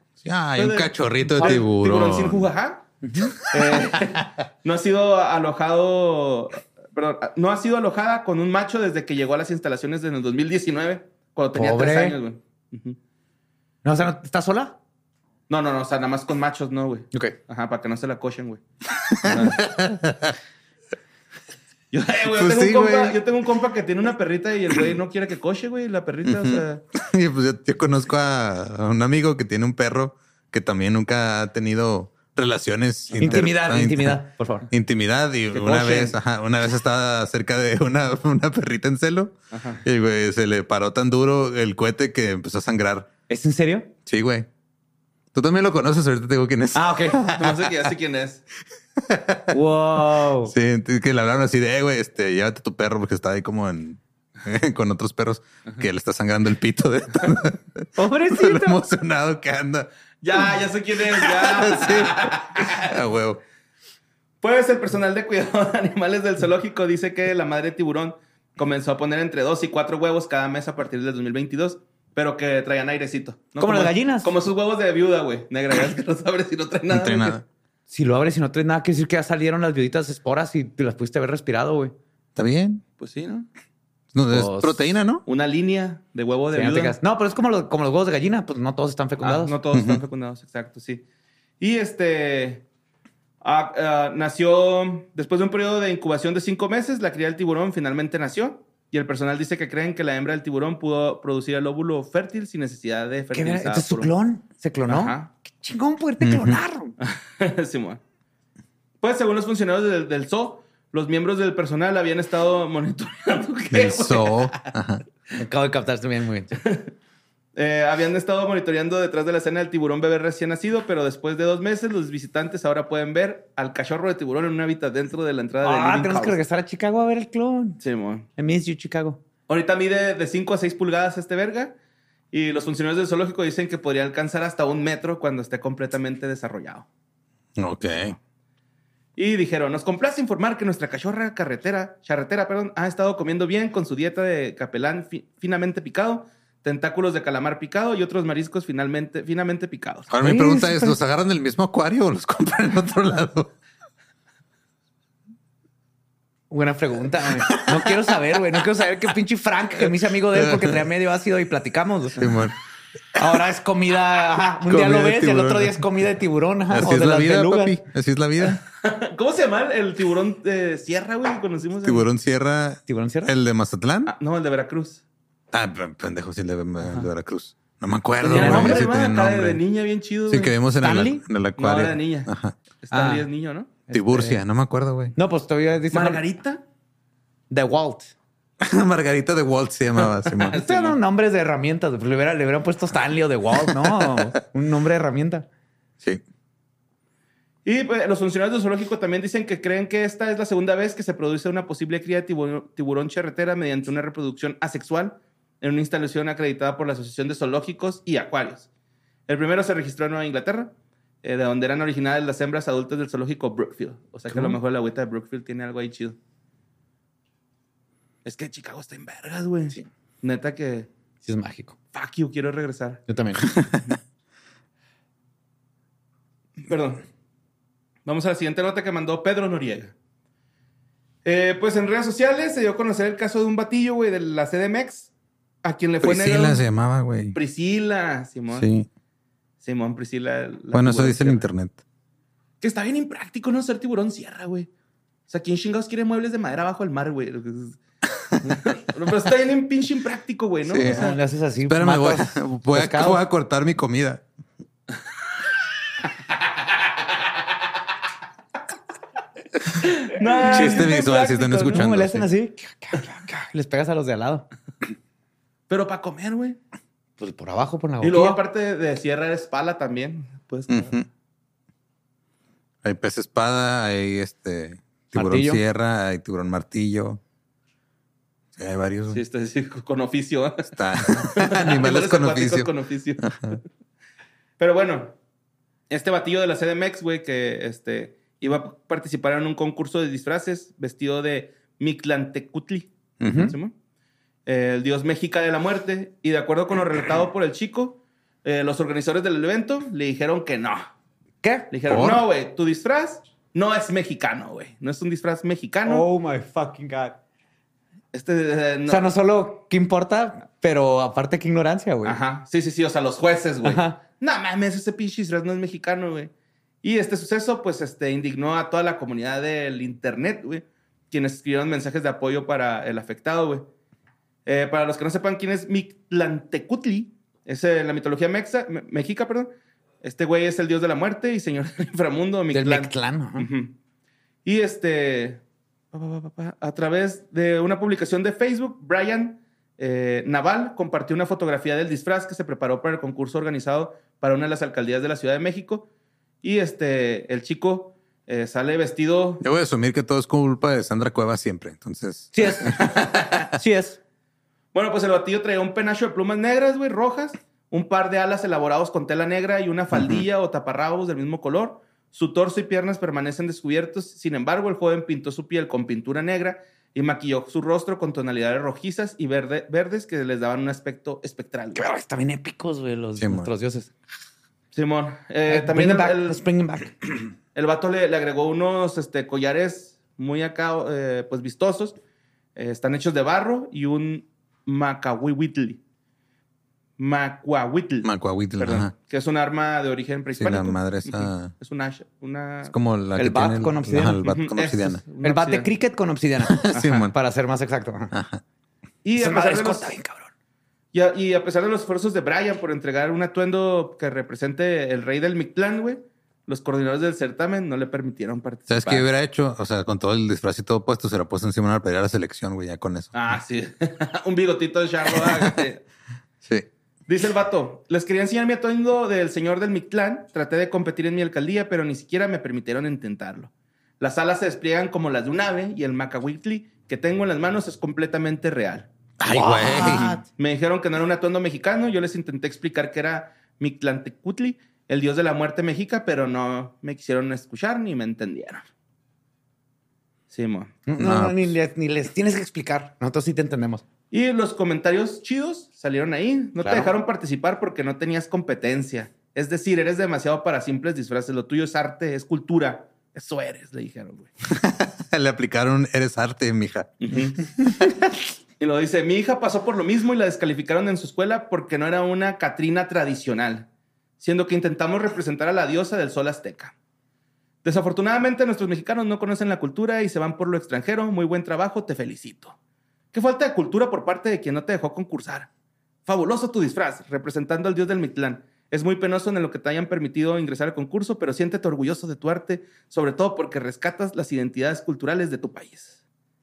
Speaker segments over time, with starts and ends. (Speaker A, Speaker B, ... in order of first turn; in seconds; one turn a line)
Speaker A: 0.2-2.5
Speaker B: 0.6-2.9
Speaker C: 3.0-3.4
Speaker B: 3.5-13.0
Speaker C: 11.5-12.2
Speaker C: 13.8-14.8
Speaker B: 15.5-18.6
Speaker A: 19.2-20.4
Speaker B: 19.2-19.6
Speaker B: 21.9-26.8
Speaker A: 22.4-23.2
Speaker A: 26.3-43.1
Speaker C: 33.2-34.7
Speaker B: 35.5-36.1
Speaker B: 39.5-39.8
Speaker C: 43.3-43.9
Speaker A: 44.1-44.5
Speaker A: 45.3-47.5
Speaker C: 46.7-47.2
Speaker B: 47.4-48.4
Speaker A: 49.0-49.6
Speaker C: 49.5-50.5
Speaker A: 50.5-59.9
Speaker C: 58.0-58.8
Speaker B: 60.2-62.9
Speaker A: 61.5-63.4
Speaker B: 64.4-77.4
Speaker C: 73.6-74.3
Speaker A: 76.9-77.4
Speaker C: 77.9-82.0
Speaker A: 82.4-82.8
Speaker B: 83.0-83.5
Speaker A: 84.1-85.2
Speaker C: 84.3-84.9
Speaker B: 85.3-87.0
Speaker C: 86.5-89.6
Speaker B: 89.2-91.0
Speaker A: 89.7-90.0
Speaker B: 91.6-92.6
Speaker B: 93.4-104.1
Speaker C: 103.3-107.0
Speaker B: 104.9-105.3
Speaker A: 106.2-106.6
Speaker B: 107.0-108.0
Speaker B: 109.0-114.7
Speaker A: 113.7-115.0
Speaker C: 115.4-116.6
Speaker B: 116.6-116.9
Speaker B: 117.6-126.4
Speaker C: 125.6-127.8
Speaker B: 127.8-128.3
Speaker C: 128.4-129.2
Speaker B: 129.5-131.8
Speaker B: 132.3-136.9
Speaker A: 137.6-138.2
Speaker B: 139.2-150.1
Speaker A: 150.1-153.5
Speaker C: 150.2-151.0
Speaker C: 156.5-162.3
Speaker A: 160.4-160.8
Speaker A: 162.2-162.6
Speaker C: 163.2-167.8
Speaker A: 164.7-165.8
Speaker A: 166.7-168.6
Speaker B: 168.7-172.1
Speaker A: 171.8-174.1
Speaker C: 172.9-173.3
Speaker B: 174.1-175.0
Speaker A: 175.5-179.6
Speaker B: 178.2-180.6
Speaker C: 178.3-178.9
Speaker A: 180.3-182.6
Speaker C: 180.8-181.2
Speaker B: 181.6-182.3
Speaker B: 182.8-183.9
Speaker C: 182.9-183.3
Speaker C: 183.9-184.4
Speaker A: 183.9-185.1
Speaker C: 185.2-186.2
Speaker B: 185.9-186.6
Speaker C: 187.5-188.1
Speaker A: 188.6-190.6
Speaker B: 190.4-191.0
Speaker C: 190.6-195.5
Speaker B: 197.6-208.7
Speaker B: 209.3-216.2
Speaker C: 214.3-214.6
Speaker B: 218.2-220.9
Speaker C: 221.2-221.8
Speaker B: 221.9-223.0
Speaker C: 223.1-223.5
Speaker B: 226.6-227.0
Speaker B: 228.1-229.9
Speaker B: 231.2-235.1
Speaker B: 235.6-236.6
Speaker A: 236.0-237.4
Speaker B: 237.3-238.7
Speaker A: 238.5-238.9
Speaker B: 239.6-241.4
Speaker A: 240.7-241.8
Speaker B: 242.6-244.7
Speaker B: 245.3-247.8
Speaker B: 248.4-251.1
Speaker A: 250.7-251.1
Speaker C: 250.8-253.2
Speaker A: 251.7-254.2
Speaker B: 259.9-261.8
Speaker C: 260.4-260.9
Speaker A: 260.5-262.3
Speaker C: 261.7-264.5
Speaker B: 265.7-266.6
Speaker C: 267.2-268.4
Speaker B: 268.0-270.9
Speaker A: 270.7-271.1
Speaker A: 272.8-277.2
Speaker C: 275.1-275.6
Speaker A: 278.6-279.2
Speaker B: 279.1-283.6
Speaker A: 280.7-282.7
Speaker A: 283.2-283.6
Speaker B: 284.6-285.1
Speaker B: 285.9-293.7
Speaker A: 293.2-293.5
Speaker C: 293.3-293.5
Speaker B: 294.5-300.9
Speaker C: 301.4-301.8
Speaker B: 301.7-306.1
Speaker A: 301.9-302.2
Speaker C: 305.9-307.2
Speaker B: 308.1-309.1
Speaker C: 308.9-312.2
Speaker B: 312.0-316.3
Speaker C: 313.6-314.0
Speaker B: 316.8-323.7
Speaker B: 324.5-333.7
Speaker C: 332.5-333.5
Speaker B: 334.4-335.4
Speaker B: 335.9-345.9
Speaker B: 346.4-349.4
Speaker A: 349.4-352.3
Speaker C: 352.3-354.0
Speaker B: 352.8-353.2
Speaker B: 354.7-371.8
Speaker A: 359.9-360.2
Speaker C: 371.8-373.9
Speaker A: 373.2-373.5
Speaker B: 374.7-376.4
Speaker C: 375.5-377.3
Speaker B: 377.6-382.0
Speaker B: 382.6-385.8
Speaker B: 387.0-392.7
Speaker A: 388.0-388.9
Speaker A: 390.4-391.5
Speaker A: 392.6-395.0
Speaker C: 393.2-394.2
Speaker B: 394.2-395.7
Speaker C: 395.2-398.1
Speaker A: 396.5-397.1
Speaker B: 396.7-397.1
Speaker A: 398.1-398.4
Speaker B: 399.0-400.0
Speaker C: 399.2-400.3
Speaker B: 400.9-409.1
Speaker A: 408.7-413.1
Speaker B: 413.1-415.8
Speaker B: 417.1-428.9
Speaker C: 429.2-430.2
Speaker A: 429.2-430.2
Speaker B: 429.7-438.7
Speaker B: 440.3-440.8
Speaker C: 440.9-443.8
Speaker A: 440.9-441.5
Speaker B: 444.1-454.3
Speaker C: 446.6-446.9
Speaker A: 454.5-456.9
Speaker B: 457.0-457.4
Speaker B: 458.6-463.7
Speaker B: 464.2-466.7
Speaker B: 467.6-472.6
Speaker B: 473.1-475.5
Speaker B: 476.1-486.0